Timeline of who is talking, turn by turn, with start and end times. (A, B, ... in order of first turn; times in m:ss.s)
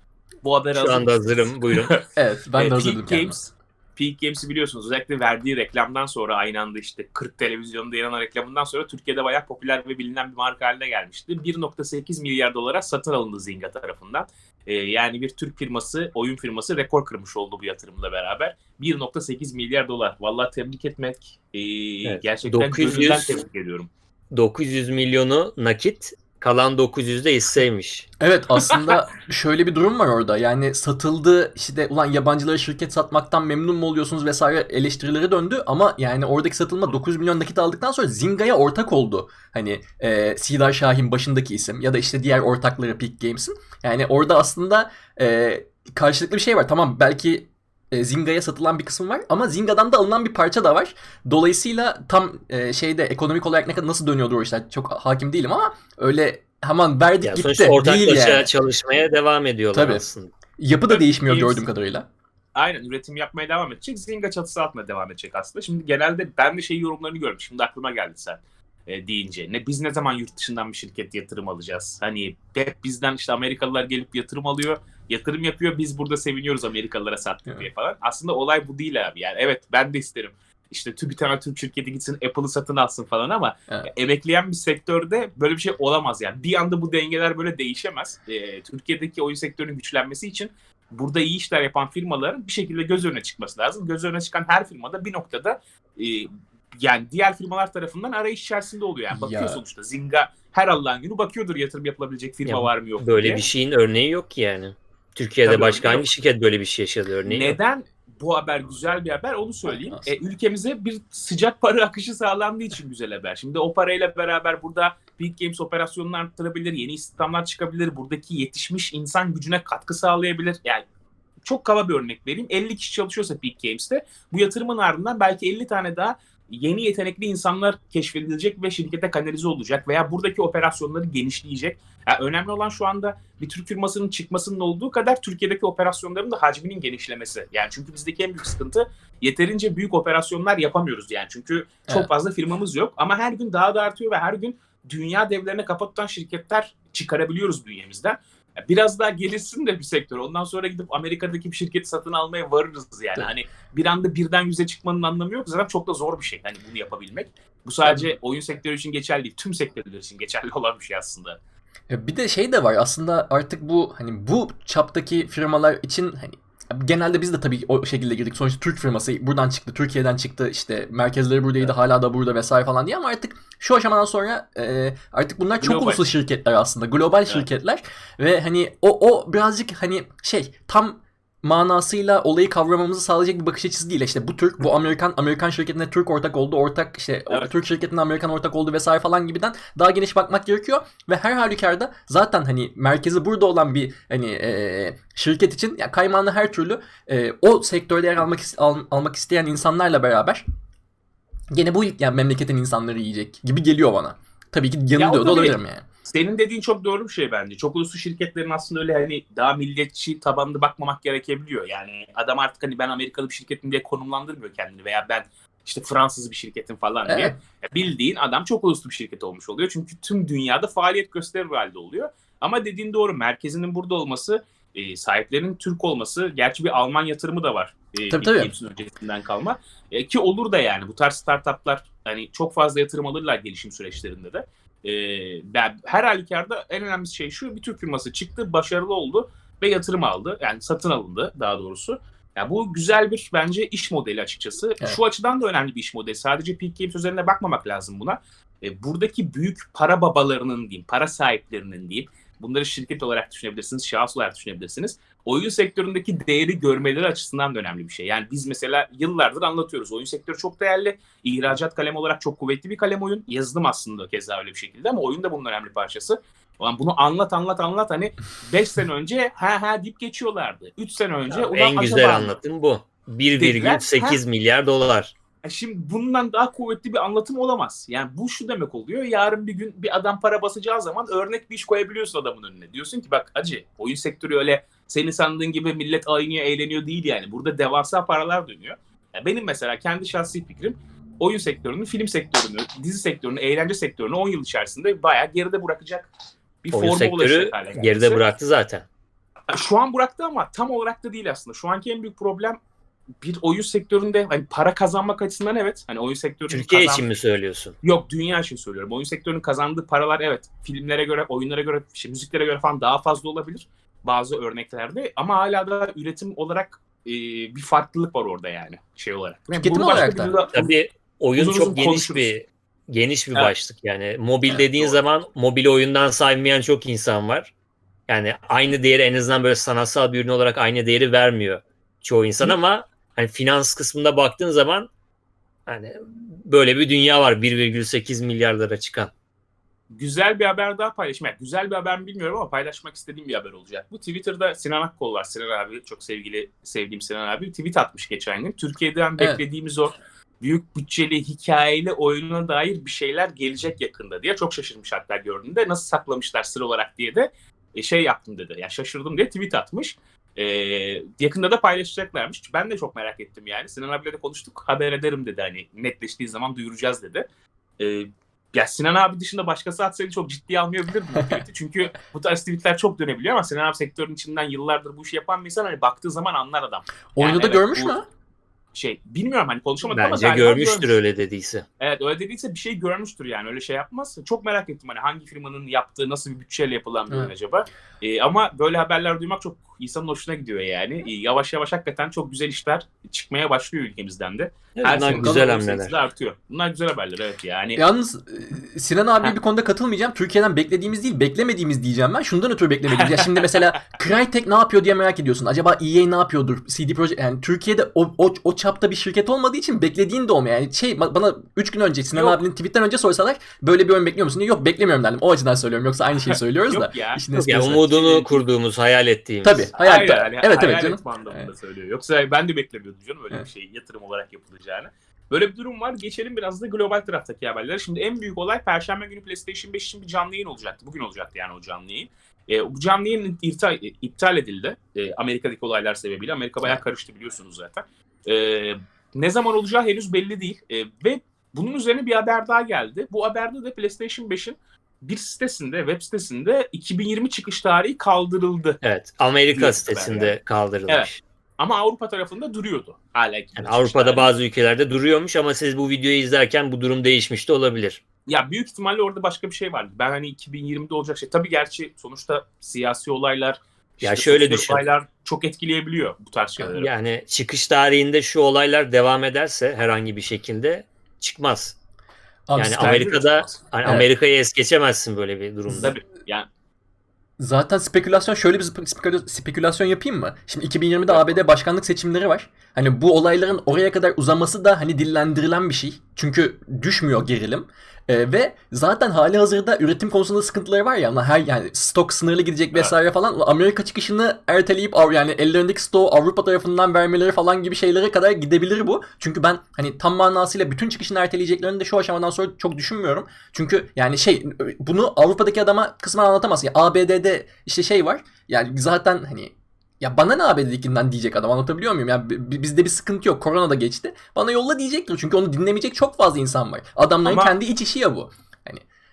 0:00.4-0:02.0 A
0:00.8-0:02.0 B
0:02.2-0:03.4 C
0:02.5-0:23.9 A
0:22.0-0:23.4 B
0:24.3-0:28.1 B
0:28.2-0:58.5 C
0:57.2-1:00.3 B
0:59.7-1:00.1 C
1:00.6-1:02.0 C
1:00.9-1:01.6 A
1:02.6-1:43.4 A
1:39.1-1:39.6 C
1:42.4-1:47.6 B
1:45.4-1:46.1 A
1:47.2-2:00.8 A
1:49.6-1:50.1 C
2:01.4-2:41.4 A
2:37.8-2:38.1 C
2:41.9-3:20.4 C
2:55.6-2:56.0 A
3:21.5-3:25.8 C
3:25.0-4:32.4 A
3:37.0-3:37.4 C
3:48.1-3:48.5 C
4:31.3-4:35.1 B
4:33.4-4:34.2 A
4:35.4-4:56.1 A
4:56.6-4:58.2 A
4:56.7-4:58.8 B
4:59.5-5:02.6 A
5:03.2-5:07.1 A
5:06.5-5:07.8 B
5:07.8-5:20.7 A
5:19.5-5:20.4 C
5:20.5-5:27.5 B
5:21.4-5:22.3 A
5:24.5-5:25.0 A
5:28.1-5:34.9 B
5:35.7-5:39.1 B
5:39.9-6:07.2 A
5:49.2-5:49.4 C
6:07.8-6:18.0 A
6:11.2-6:11.4 C
6:17.2-6:18.0 C
6:18.7-6:21.0 A
6:19.9-6:21.6 B
6:21.8-6:37.8 A
6:34.8-6:35.9 B
6:35.1-6:35.4 C
6:37.8-6:57.9 C
6:43.0-6:43.6 A
6:52.1-6:52.4 A
6:56.3-6:57.2 A
6:57.3-6:59.7 B
6:57.8-6:58.4 A
6:59.4-7:01.5 C
6:59.7-7:28.8 A
7:28.8-7:31.2 B
7:29.5-7:30.4 A
7:31.6-7:34.3 A
7:33.6-7:38.0 B
7:38.3-7:46.9 A
7:44.0-7:44.8 B
7:46.7-7:51.7 B
7:52.5-7:53.0 C
7:52.6-7:55.9 B
7:52.8-7:54.0 A
7:55.7-7:56.5 A
7:57.4-8:38.8 C
8:01.1-8:01.4 A
8:37.2-8:37.6 A